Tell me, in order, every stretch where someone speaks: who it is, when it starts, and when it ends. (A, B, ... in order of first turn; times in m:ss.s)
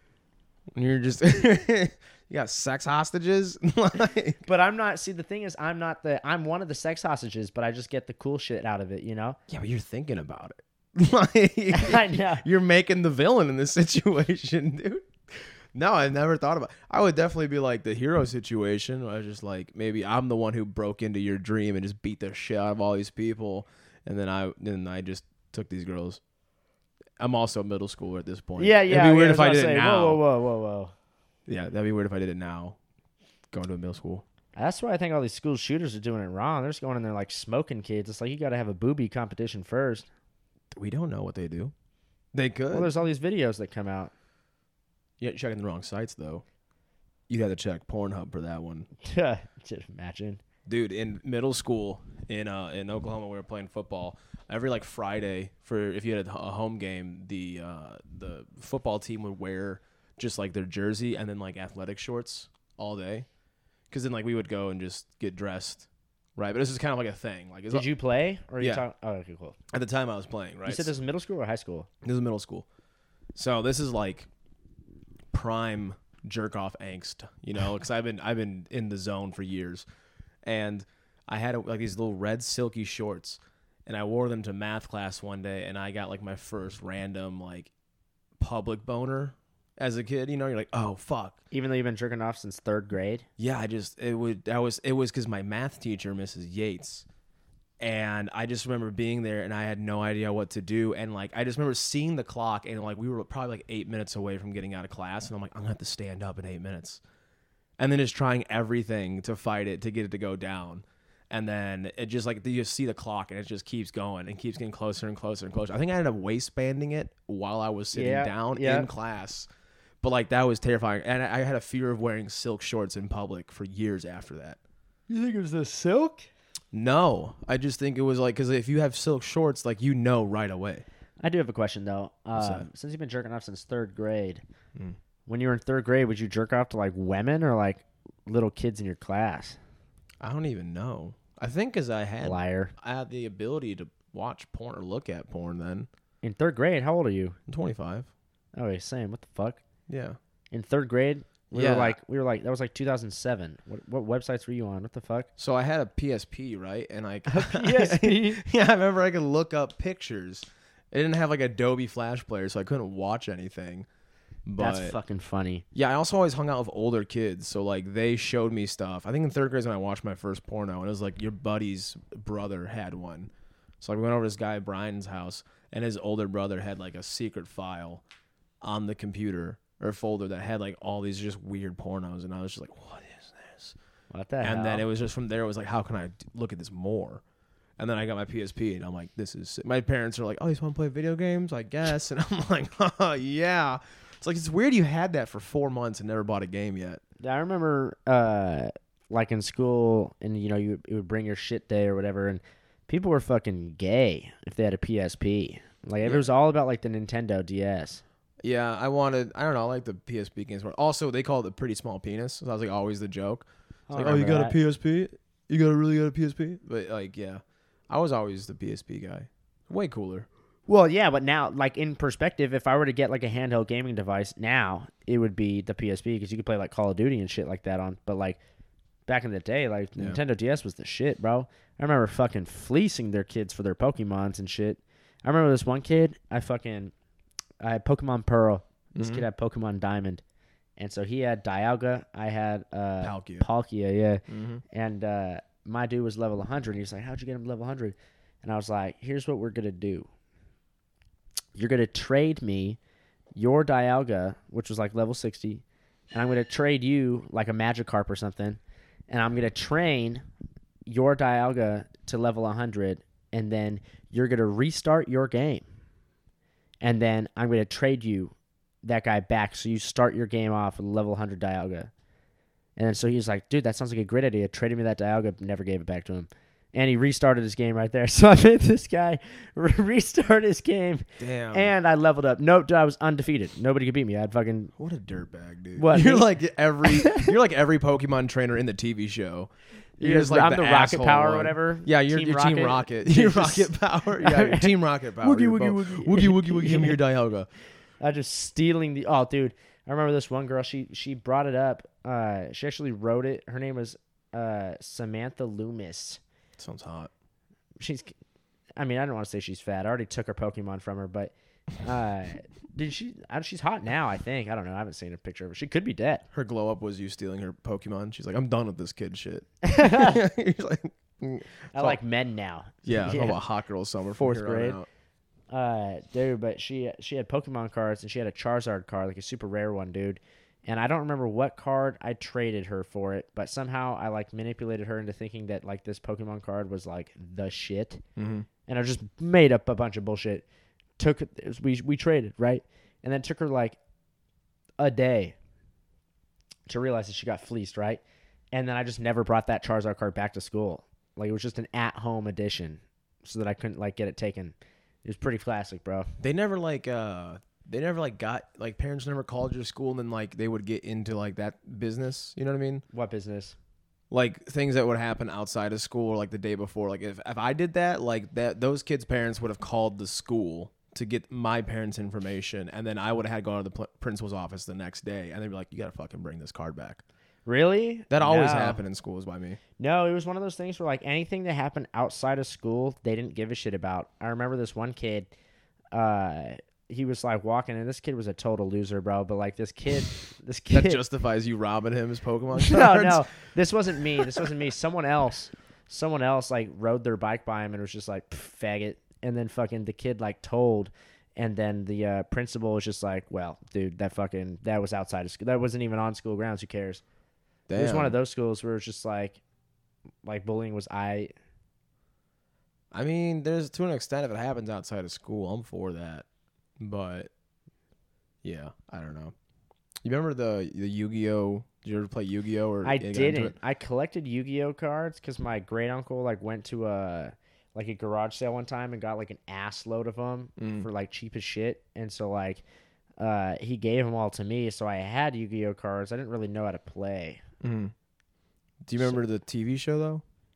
0:00.7-0:04.4 A
0:04.4-0:09.4 B
0:09.5-0:26.2 A
0:11.7-0:12.4 B
0:27.2-0:30.2 A
0:28.6-0:30.9 B
0:31.5-0:32.8 A
0:33.5-0:34.2 A
0:34.6-0:40.1 B
0:40.7-0:41.7 A
0:42.3-0:42.9 A
0:42.7-0:44.1 B
0:45.2-0:46.4 A
0:47.3-0:48.9 A
0:49.0-0:50.4 B
0:50.7-1:03.3 A
1:03.9-1:07.9 A
1:07.7-1:09.6 B
1:09.7-1:10.9 A
1:10.7-1:11.9 B
1:12.0-1:12.7 A
1:13.4-1:14.3 A
1:15.3-1:19.8 A
1:20.4-1:27.7 A
1:28.4-1:31.4 A
1:31.5-1:33.3 B
1:33.4-1:37.1 A
1:37.8-1:47.0 A
1:47.8-1:59.5 A
1:57.9-1:58.9 B
2:00.0-2:04.6 A
2:05.1-2:06.3 B
2:06.7-2:10.8 A
2:11.2-2:14.4 B
2:12.4-2:12.7 A
2:15.3-2:19.6 B
2:20.2-2:25.9 A
2:22.2-2:22.7 B
2:26.2-2:27.4 B
2:27.5-2:28.1 A
2:28.6-2:29.6 B
2:29.9-2:30.2 A
2:30.5-2:35.3 B
2:31.5-2:32.0 A
2:35.4-2:43.9 A
2:37.3-2:38.4 B
2:44.5-2:45.0 A
2:44.6-2:45.6 B
2:45.7-2:53.3 A
2:53.8-2:58.0 A
2:58.6-3:03.8 A
3:04.1-3:04.8 B
3:04.4-3:07.2 A
3:07.8-3:17.0 A
3:17.2-3:28.0 B
3:28.4-3:40.3 A
3:33.9-3:34.6 B
3:40.7-3:48.4 B
3:49.1-3:56.9 B
3:57.6-4:00.2 B
3:59.0-3:59.3 A
4:00.8-4:10.1 B
4:03.0-4:03.5 A
4:04.3-4:04.6 A
4:11.6-4:12.8 B
4:13.3-4:20.2 B
4:20.9-4:25.6 B
4:26.8-4:31.9 B
4:32.8-4:44.7 B
4:41.2-4:41.7 A
4:44.8-4:57.5 A
4:45.8-4:46.3 B
4:47.0-4:47.3 B
4:50.0-4:57.0 B
4:58.0-5:06.2 B
5:06.6-5:07.1 A
5:07.8-5:08.1 B
5:08.8-5:16.3 B
5:16.3-5:22.0 A
5:19.6-5:20.2 B
5:21.7-5:23.4 B
5:22.9-5:24.9 A
5:24.2-5:24.8 B
5:25.5-5:38.0 B
5:38.2-5:38.5 A
5:38.7-5:40.4 B
5:41.0-5:43.8 B
5:44.8-5:45.4 B
5:46.7-5:48.0 B
5:48.5-5:56.1 B
5:56.2-6:02.8 A
6:02.9-6:03.6 B
6:04.1-6:17.0 A
6:17.5-6:18.8 B
6:18.1-6:19.6 A
6:19.8-6:25.3 B
6:25.9-6:31.0 B
6:30.7-6:33.2 A
6:32.6-6:47.0 B
6:34.2-6:34.5 A
6:47.7-6:48.2 A
6:47.8-6:49.4 B
6:50.2-6:51.3 B
6:52.9-6:56.2 A
6:56.8-6:57.3 A
6:58.4-6:59.3 A
7:00.0-7:03.6 A
7:02.8-7:12.6 B
7:10.6-7:10.9 A
7:13.2-7:17.4 B
7:17.6-7:17.9 A
7:18.8-7:20.2 A